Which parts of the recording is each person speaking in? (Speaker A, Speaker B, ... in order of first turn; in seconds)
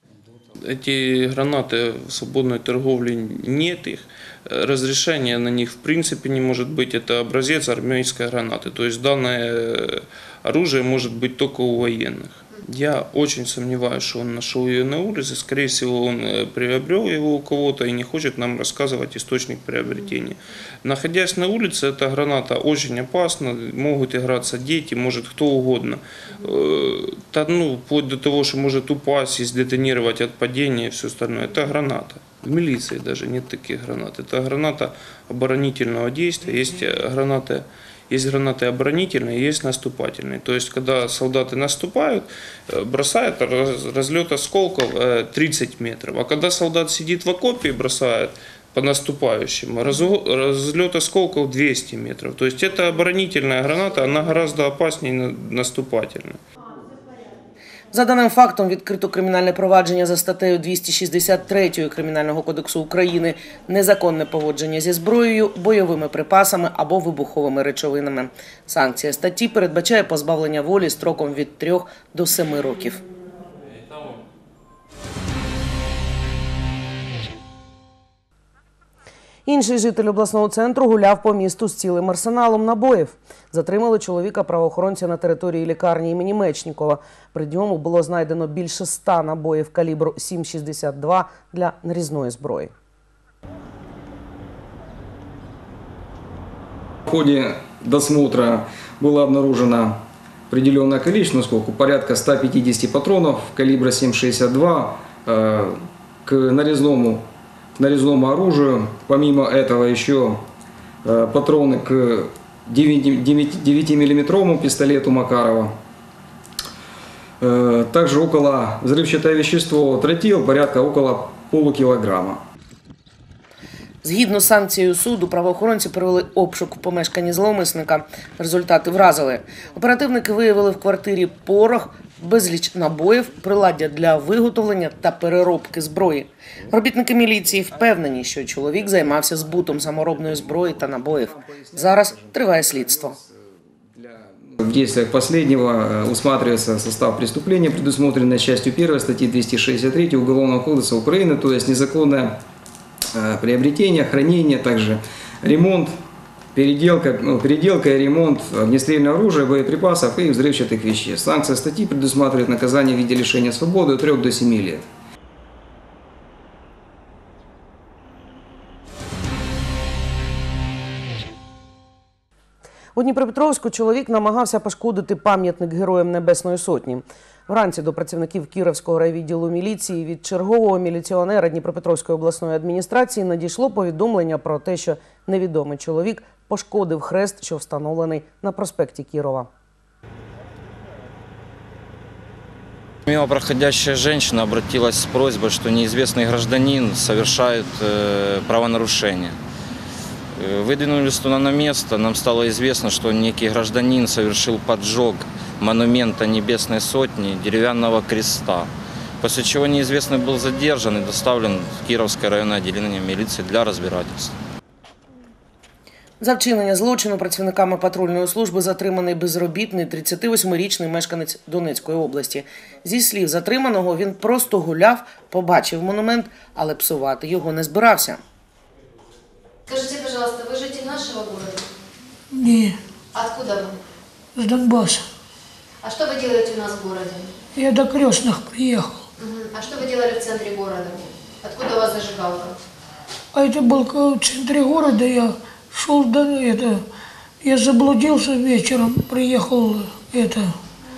Speaker A: 0.7-56.4
Speaker B: 57.9-73.0, 79.5-92.7, 124.0-143.2, 172.9-189.5, 216.2-228.2
Speaker C: 97.1-110.4, 111.0-115.8, 117.4-122.4, 140.5-143.3, 143.9-152.4, 153.1-155.9, 156.6-164.9
Speaker D: 193.1-199.4, 200.3-214.3
Speaker E: 229.7-231.7, 233.1-233.8, 235.8-237.3, 239.2-242.6
Speaker F: 232.3-232.8, 234.4-235.1, 237.6-239.0, 243.3-246.8, 247.4-250.5